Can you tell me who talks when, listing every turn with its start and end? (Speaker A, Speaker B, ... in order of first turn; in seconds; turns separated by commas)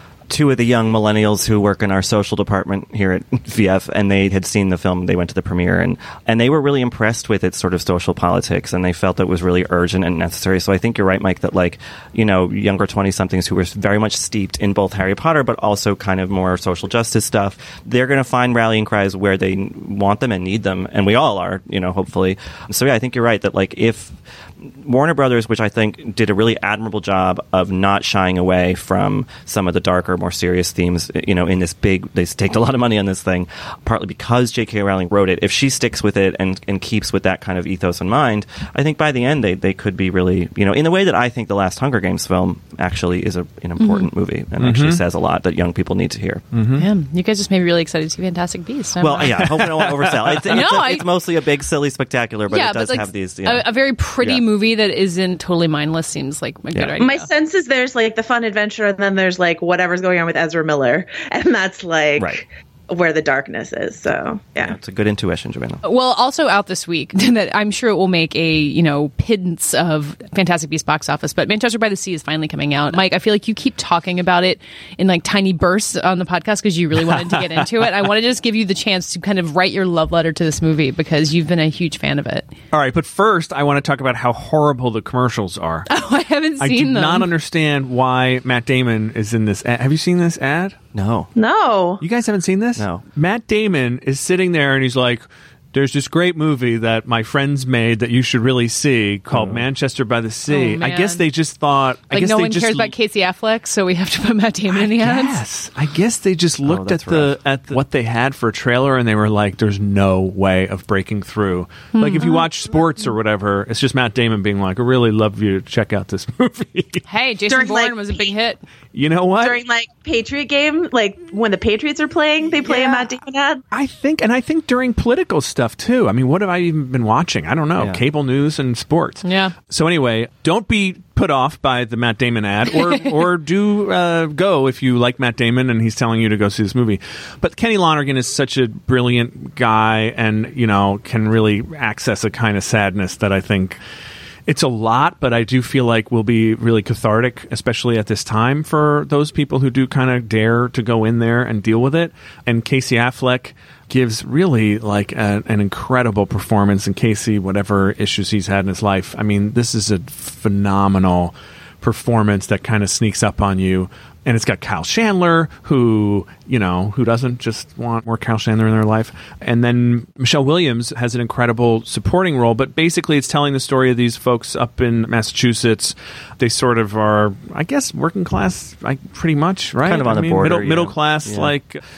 Speaker A: 0.3-46.5, Speaker B: 43.8-44.1, Speaker C: 44.6-45.0, Speaker C: 46.5-46.9, Speaker B: 46.8-49.3, Speaker A: 49.0-53.7, Speaker C: 49.4-50.7, Speaker B: 50.5-51.1, Speaker B: 52.5-57.3, Speaker D: 57.0-64.8, Speaker A: 64.6-65.8, Speaker B: 65.8-82.5, Speaker C: 77.1-77.7, Speaker C: 82.7-85.9, Speaker B: 85.9-87.3, Speaker C: 86.6-90.8, Speaker A: 90.9-91.3, Speaker D: 91.3-92.0, Speaker C: 92.0-102.9, Speaker A: 92.8-93.0, Speaker A: 99.3-99.6, Speaker B: 100.5-101.3, Speaker B: 102.1-105.4, Speaker C: 104.7-117.0, Speaker A: 106.6-107.3, Speaker B: 111.9-112.5, Speaker B: 117.1-118.6, Speaker D: 117.5-118.3, Speaker C: 118.9-119.6, Speaker D: 119.4-123.6, Speaker B: 122.7-123.0, Speaker C: 123.7-143.8, Speaker A: 127.8-128.0, Speaker B: 129.2-129.5, Speaker C: 144.5-181.8, Speaker A: 179.8-181.5